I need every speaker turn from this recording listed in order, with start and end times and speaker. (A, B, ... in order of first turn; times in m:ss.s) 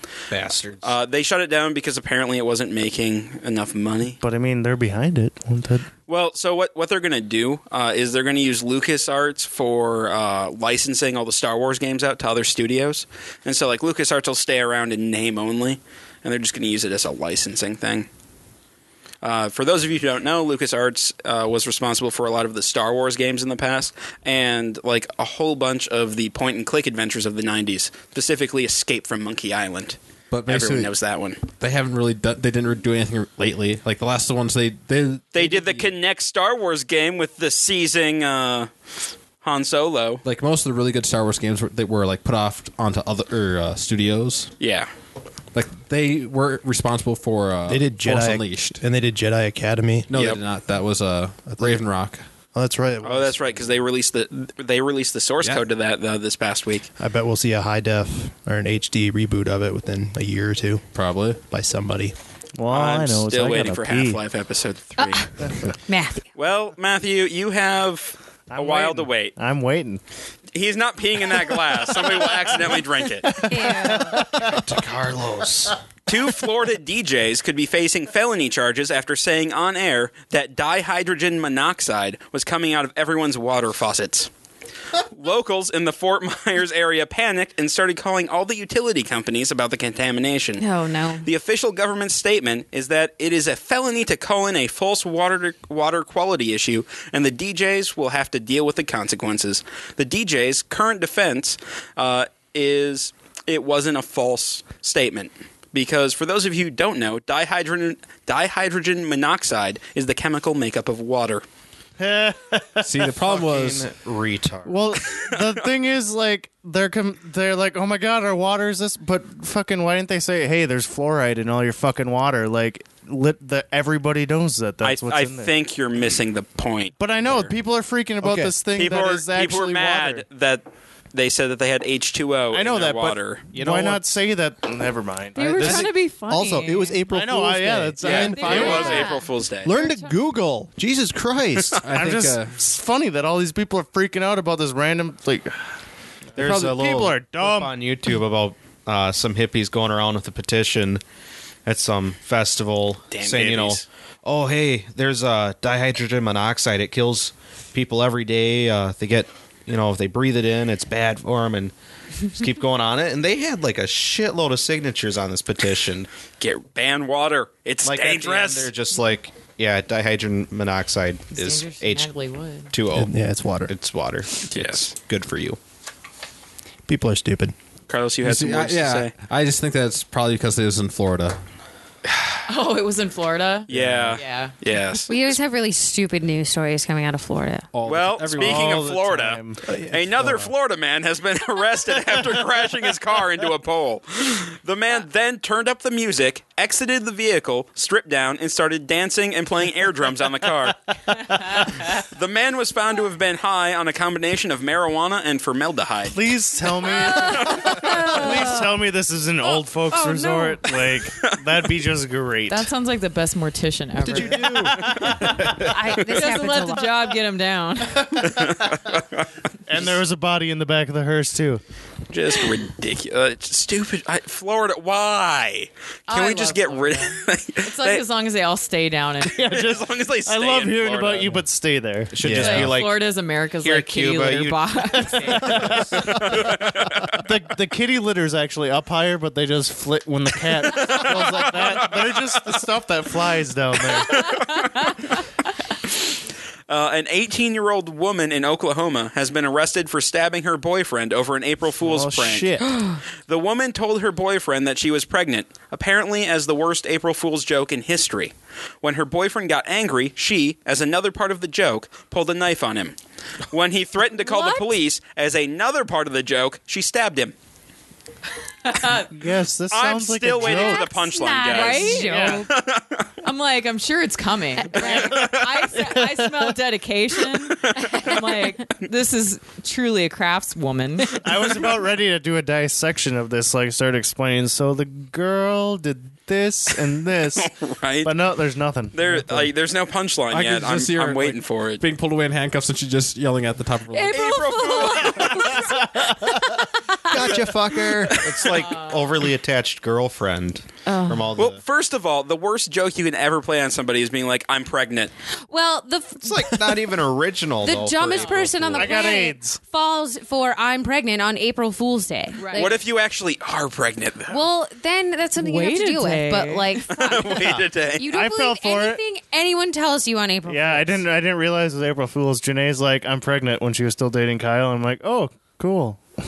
0:00.3-0:00.8 A
0:00.8-0:04.2 B
0:04.2-0:05.9 C
0:06.1-0:18.1 B
0:19.2-0:31.4 B
0:30.3-0:30.9 D
0:31.5-0:35.9 D
0:35.3-0:38.7 B
0:39.4-0:40.2 B
0:40.2-0:44.5 D
0:44.6-0:44.9 B
0:45.5-0:48.8 D
0:47.7-0:50.1 E
0:50.1-0:52.2 D
0:50.1-0:50.4 B
0:51.5-0:51.8 E
0:52.5-0:53.7 E
0:53.0-0:56.9 B
0:57.0-1:00.8 E
1:01.0-1:01.4 D
1:01.5-1:02.2 E
1:02.6-1:04.2 C
1:02.7-1:05.3 B
1:05.0-1:06.2 F
1:06.4-1:09.3 B
1:08.5-1:10.0 C
1:10.5-1:13.5 B
1:13.2-1:14.6 C
1:13.5-1:14.3 F
1:14.4-1:15.8 A
1:16.1-1:24.3 B
1:25.0-1:30.6 B
1:30.6-1:31.3 F
1:31.2-1:51.4 B
1:52.0-1:52.9 C
1:52.8-1:53.9 D
1:53.1-1:54.8 A
1:54.6-2:05.5 C
1:55.0-1:55.4 B
2:04.8-2:07.5 B
2:07.0-2:10.2 C
2:08.2-2:08.5 E
2:08.8-2:13.4 B
2:12.5-2:15.9 C
2:13.5-2:14.0 A
2:15.4-2:17.0 G
2:15.6-2:19.0 E
2:17.1-2:19.1 C
2:18.0-2:19.8 B
2:18.3-2:19.3 F
2:18.5-2:19.2 G
2:19.6-2:21.8 E
2:21.8-2:22.6 D
2:21.9-2:25.6 C
2:26.4-2:27.8 C
2:26.4-2:31.0 A
2:31.6-2:41.7 A
2:33.1-2:33.9 B
2:42.3-2:46.1 A
2:46.4-2:48.7 B
2:47.8-2:52.1 A
2:51.3-2:52.7 G
2:52.7-2:53.1 A
2:52.9-2:53.7 E
2:53.7-2:55.6 A
2:54.5-2:54.9 B
2:56.9-2:57.6 E
2:57.9-2:59.1 B
2:58.2-3:01.4 D
3:02.1-3:02.4 B
3:02.5-3:04.6 G
3:03.7-3:04.2 D
3:03.7-3:05.1 B
3:05.1-3:07.7 F
3:07.7-3:08.9 D
3:07.8-3:20.8 B
3:08.4-3:09.7 C
3:09.7-3:10.5 E
3:21.5-3:26.2 B
3:26.1-3:32.7 C
3:27.0-3:28.7 F
3:27.2-3:27.7 B
3:29.9-3:30.7 F
3:32.5-3:34.7 G
3:34.0-3:34.9 A
3:34.5-3:35.4 C
3:35.5-3:36.9 F
3:36.1-3:38.5 G
3:38.2-3:40.0 B
3:39.7-3:41.6 C
3:42.1-3:48.0 B
3:46.1-3:49.7 G
3:49.3-3:52.3 C
3:49.4-3:51.4 B
3:52.1-3:53.1 A
3:52.2-3:52.8 E
3:52.3-3:55.9 G
3:53.6-3:54.7 A
3:54.9-3:56.6 C
3:56.0-3:57.2 B
3:57.1-4:04.2 C
4:00.7-4:02.6 B
4:03.8-4:04.9 B
4:04.3-4:04.6 G
4:06.7-4:12.7 B
4:11.8-4:12.7 C
4:12.7-4:13.0 F
4:13.3-4:23.0 B
4:23.5-4:27.4 B
4:24.3-4:24.6 F
4:28.6-4:29.1 G
4:29.1-4:30.9 C
4:29.7-4:33.1 B
4:30.4-4:32.5 F
4:31.4-4:32.4 G
4:32.0-4:32.4 C
4:33.2-4:41.2 G
4:34.7-4:35.8 B
4:34.9-4:35.3 C
4:37.5-4:38.2 B
4:41.1-4:47.5 C
4:47.2-4:48.2 B
4:48.0-4:49.5 C
4:48.9-4:51.8 B
4:50.3-4:54.5 D
4:53.9-4:57.6 F
4:54.1-4:55.8 B
4:57.1-4:58.2 E
4:57.9-5:01.6 A
4:58.2-4:58.6 B
4:58.5-4:59.1 G
5:00.9-5:01.4 F
5:01.4-5:05.1 B
5:05.5-5:07.0 F
5:06.2-5:09.0 A
5:07.6-5:12.8 F
5:08.1-5:08.4 G
5:08.7-5:09.6 C
5:12.4-5:12.8 G
5:12.5-5:14.4 B
5:14.3-5:21.0 F
5:15.4-5:16.8 G
5:16.9-5:18.1 B
5:18.1-5:19.0 C
5:20.5-5:26.0 C